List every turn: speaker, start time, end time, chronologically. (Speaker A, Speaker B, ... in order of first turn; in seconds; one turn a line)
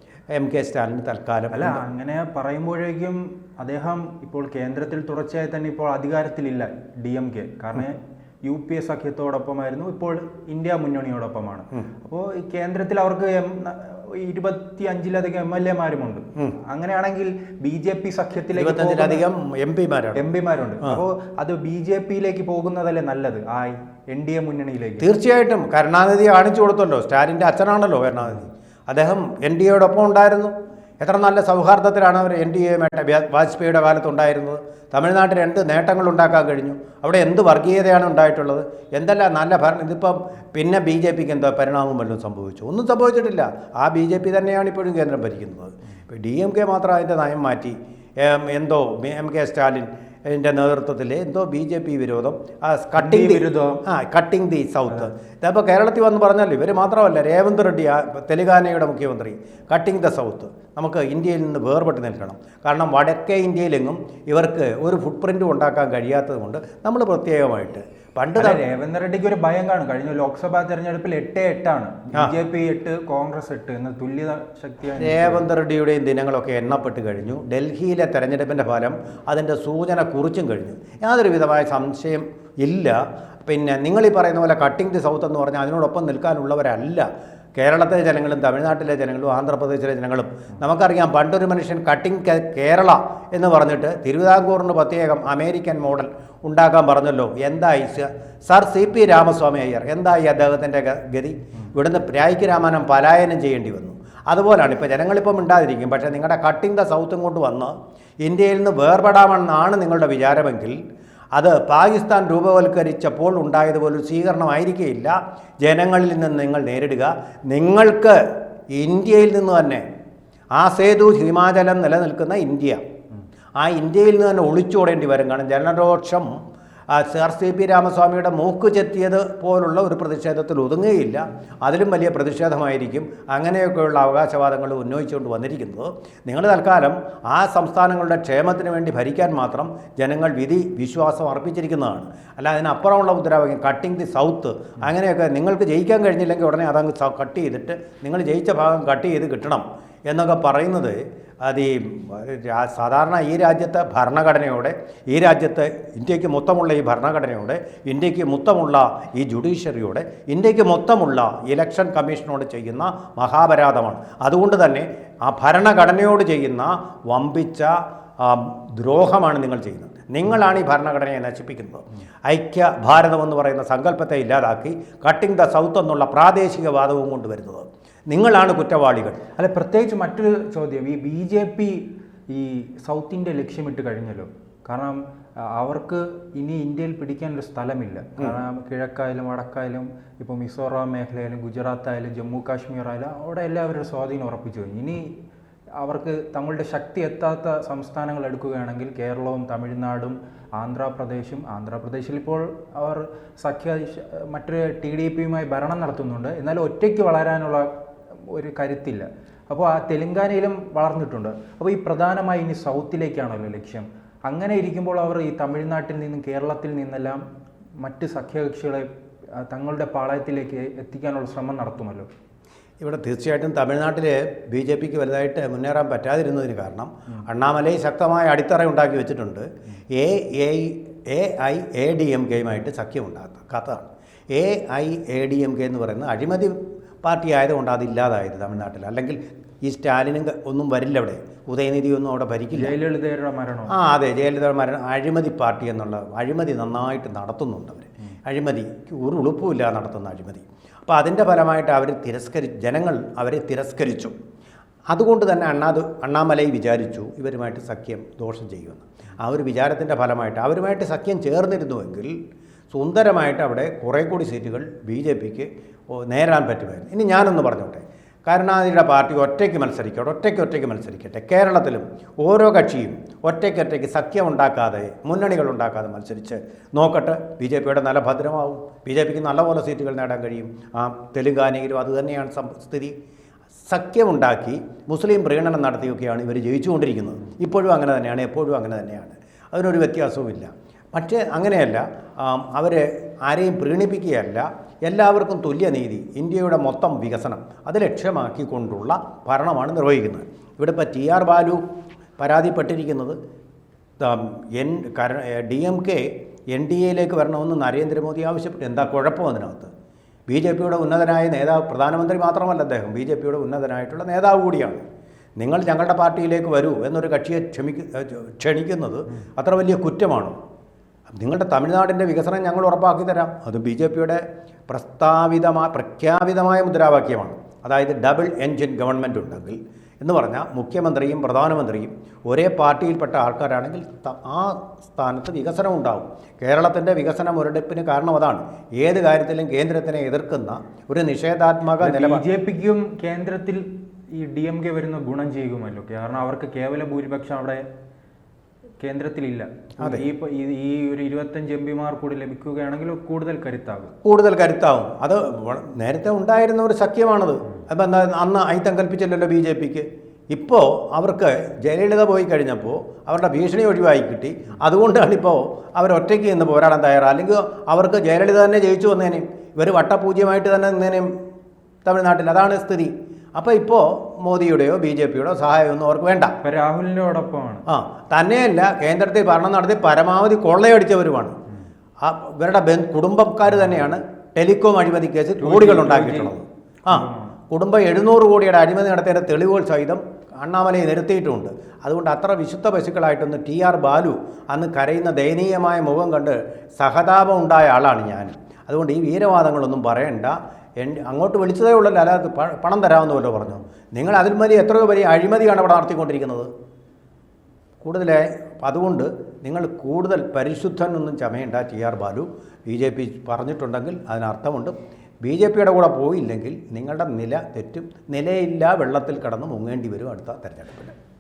Speaker A: 0.3-1.8
Speaker B: 1.5-19.2
Speaker A: 18.6-20.2
Speaker B: 20.1-25.1
Speaker A: 25.0-68.6
Speaker B: 53.0-53.8
Speaker B: 68.4-75.5
Speaker A: 75.0-110.8
Speaker A: 111.3-118.2
Speaker A: 118.7-119.8
Speaker A: 120.6-122.8
Speaker A: 123.6-126.3
Speaker A: 126.9-179.2
Speaker B: 179.4-195.2
Speaker B: 195.8-207.7
Speaker B: 208.3-217.2
Speaker B: 217.8-218.9
Speaker B: 219.4-222.1
Speaker A: 222.8-242.8
Speaker B: 242.5-243.8
Speaker A: 243.7-254.1
Speaker A: 254.9-262.1
Speaker A: 262.7-282.9
Speaker A: 283.7-301.6
Speaker A: 302.2-303.2
Speaker A: 304.0-309.7
Speaker A: 310.3-314.8
Speaker A: 315.4-320.4
Speaker A: 321.1-342.2
Speaker B: 341.8-347.6
Speaker B: 348.8-353.9
Speaker A: 349.8-350.1
Speaker A: 354.0-371.1
Speaker A: 371.9-376.4
Speaker B: 376.4-377.6
Speaker A: 377.7-381.4
Speaker A: 382.0-406.5
Speaker B: 385.4-386.4
Speaker B: 386.9-387.4
Speaker A: 407.8-421.0